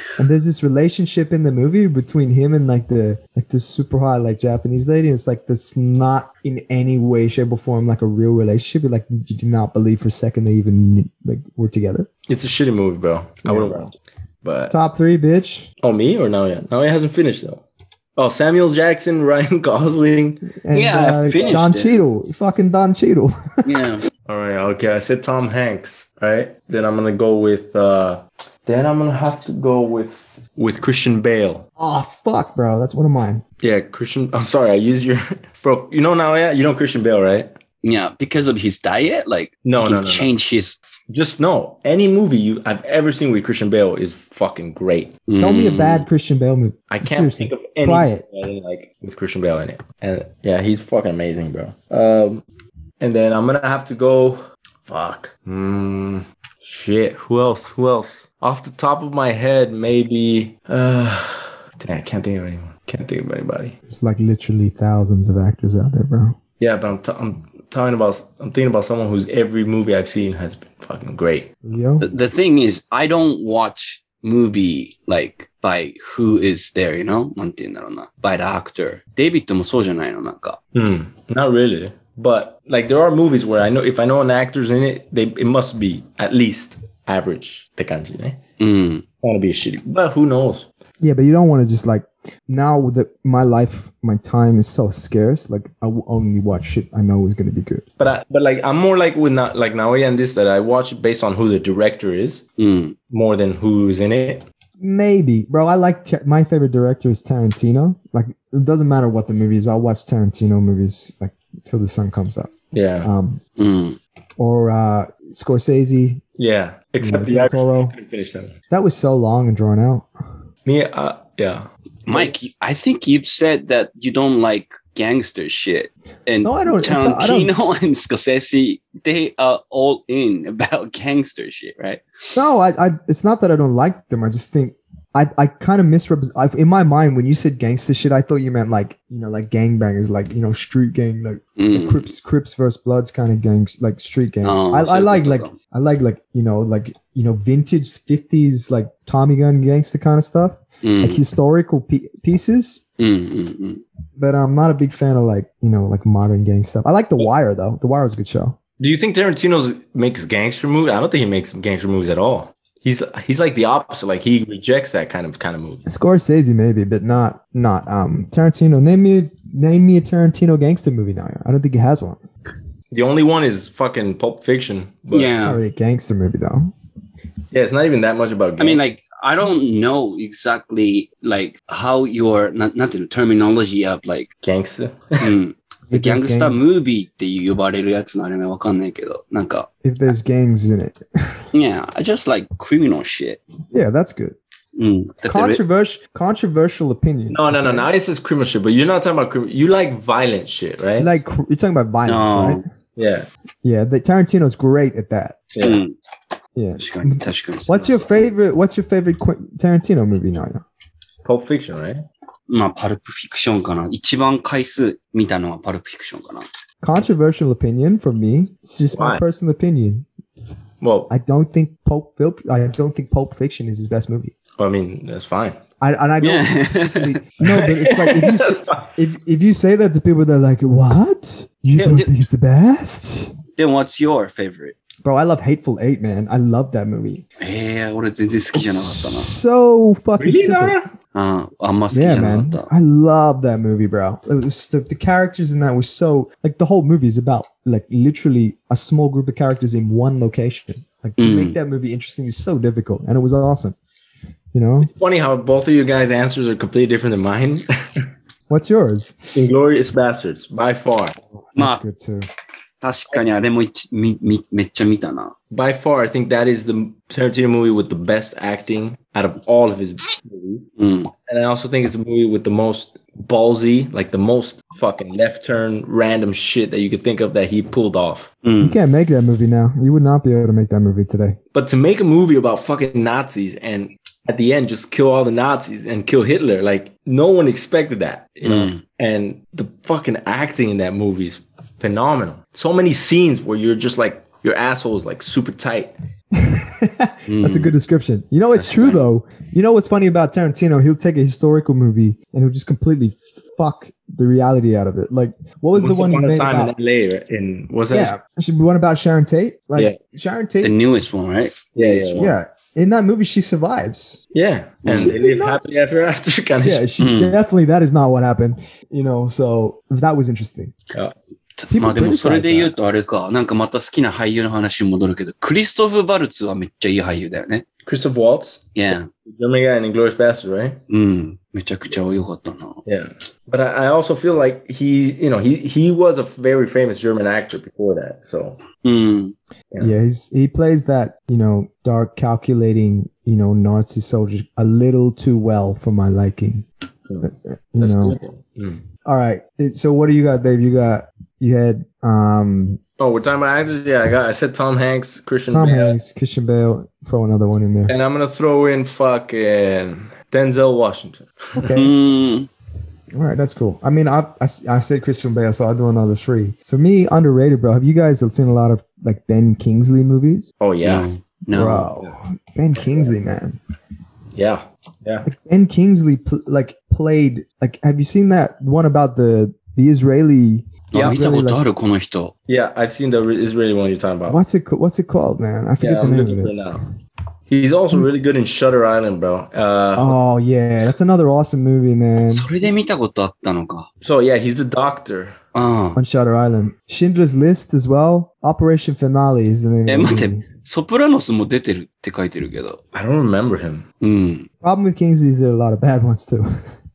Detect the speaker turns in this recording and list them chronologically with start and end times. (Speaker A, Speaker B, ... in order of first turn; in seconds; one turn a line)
Speaker A: 0.2-12.1
Speaker B: 12.3-13.9
Speaker A: 13.4-13.9
Speaker B: 14.4-14.7
Speaker A: 14.7-15.7
Speaker B: 15.8-17.6
Speaker B: 18.2-20.5
Speaker A: 20.6-23.8
Speaker C: 20.7-22.0
Speaker C: 23.6-24.0
Speaker B: 24.3-31.6
Speaker A: 31.8-33.4
Speaker B: 33.6-37.5
Speaker C: 37.8-40.8
Speaker B: 39.6-40.3
Speaker B: 41.1-45.2
Speaker C: 45.3-46.1
Speaker A: 45.4-48.2
Speaker B: 46.9-52.4
Speaker B: 53.0-63.7
Speaker A: 63.9-66.4
Speaker B: 66.6-71.5
Speaker A: 71.6-72.1
Speaker C: 72.0-80.6
Speaker B: 80.7-88.4
Speaker C: 88.6-89.0
Speaker B: 89.2-90.7
Speaker A: 91.0-97.8
Speaker B: 98.0-102.4
Speaker C: 102.6-103.0
Speaker B: 103.1-104.4
Speaker A: 104.8-113.4
Speaker B: 112.7-113.1
Speaker C: 113.6-114.0
Speaker A: 114.4-116.2
Speaker B: 116.4-118.5
Speaker A: 117.0-117.9
Speaker A: 118.7-120.1
Speaker B: 120.7-122.3
Speaker C: 122.1-132.0
Speaker A: 126.4-127.5
Speaker A: 132.3-152.8
Speaker C: 141.6-142.1
Speaker C: 144.4-145.5
Speaker C: 150.8-151.2
Speaker C: 153.0-153.8
Speaker A: 154.2-158.6
Speaker B: 158.8-165.9
Speaker A: 165.9-172.2
Speaker B: 172.9-175.3
Speaker C: 175.1-175.6
Speaker A: 175.4-176.7
Speaker B: 177.5-178.8
Speaker C: 178.6-184.3
Speaker B: 184.4-185.3
Speaker C: 185.2-189.7
Speaker A: 185.9-186.6
Speaker A: 189.8-191.4
Speaker C: 191.5-193.4
Speaker A: 193.7-194.4
Speaker C: 194.8-195.6
Speaker A: 195.2-197.9
Speaker B: 197.3-201.1
Speaker A: 201.0-202.6
Speaker C: 202.1-202.6
Speaker B: 203.0-203.3
Speaker A: 203.6-205.4
Speaker B: 205.5-205.8
Speaker C: 205.6-205.9
Speaker A: 206.6-210.6
Speaker C: 206.8-208.3
Speaker B: 211.2-212.0
Speaker C: 212.5-216.5
Speaker A: 216.8-220.1
Speaker B: 218.9-219.2
Speaker B: 220.8-221.1
Speaker A: 221.1-224.3
Speaker B: 224.6-225.6
Speaker A: 225.8-233.3
Speaker C: 226.2-227.2
Speaker B: 227.4-228.9
Speaker C: 231.8-232.1
Speaker C: 233.6-234.7
Speaker A: 235.0-237.2
Speaker C: 237.4-239.3
Speaker A: 238.5-240.8
Speaker B: 240.2-240.9
Speaker C: 241.1-242.7
Speaker A: 241.9-253.8
Speaker C: 251.2-251.6
Speaker A: 254.5-254.9
Speaker B: 254.8-258.0
Speaker A: 258.5-259.3
Speaker B: 259.3-261.2
Speaker A: 261.5-262.3
Speaker C: 261.6-261.8
Speaker C: 262.8-265.3
Speaker B: 265.5-270.6
Speaker C: 270.8-271.1
Speaker B: 271.3-278.3
Speaker C: 278.4-278.8
Speaker A: 278.6-281.4
Speaker B: 281.5-295.9
Speaker C: 288.4-288.8
Speaker A: 296.3-306.7
Speaker C: 297.3-297.7
Speaker C: 298.5-299.1
Speaker B: 305.8-308.1
Speaker A: 307.9-310.7
Speaker C: 310.6-312.3
Speaker B: 311.7-312.3
Speaker A: 312.2-314.2
Speaker B: 314.3-316.8
Speaker C: 314.8-315.2
Speaker A: 314.9-315.6
Speaker A: 316.6-320.7
Speaker C: 317.0-317.4
Speaker C: 321.6-327.6
Speaker A: 321.7-322.7
Speaker B: 327.8-328.7
Speaker C: 328.7-329.1
Speaker B: 329.2-330.8
Speaker C: 330.9-332.8
Speaker B: 332.9-338.6
Speaker C: 338.8-339.3
Speaker A: 339.8-346.6
Speaker B: 347.1-348.8
Speaker A: 347.2-348.2
Speaker A: 349.0-352.8
Speaker B: 353.0-356.0
Speaker A: 355.5-357.9
Speaker B: 357.9-361.5
Speaker A: 361.6-361.9
Speaker C: 361.6-362.5
Speaker A: 363.1-370.5
Speaker B: 370.6-371.1
Speaker C: 370.8-371.9
Speaker A: 371.5-373.6
Speaker B: 372.8-373.1
Speaker B: 374.3-375.3
Speaker A: 375.2-381.6
Speaker C: 380.9-382.3
Speaker B: 380.9-381.3
Speaker B: 382.5-384.4
Speaker A: 384.2-386.5
Speaker B: 385.8-386.8
Speaker B: 387.5-390.1
Speaker A: 389.9-392.5
Speaker C: 392.3-393.9
Speaker B: 394.0-395.4
Speaker C: 395.5-396.0
Speaker A: 395.9-400.4
Speaker C: 399.9-402.8
Speaker B: 402.9-403.9
Speaker C: 404.0-404.5
Speaker A: 404.6-406.5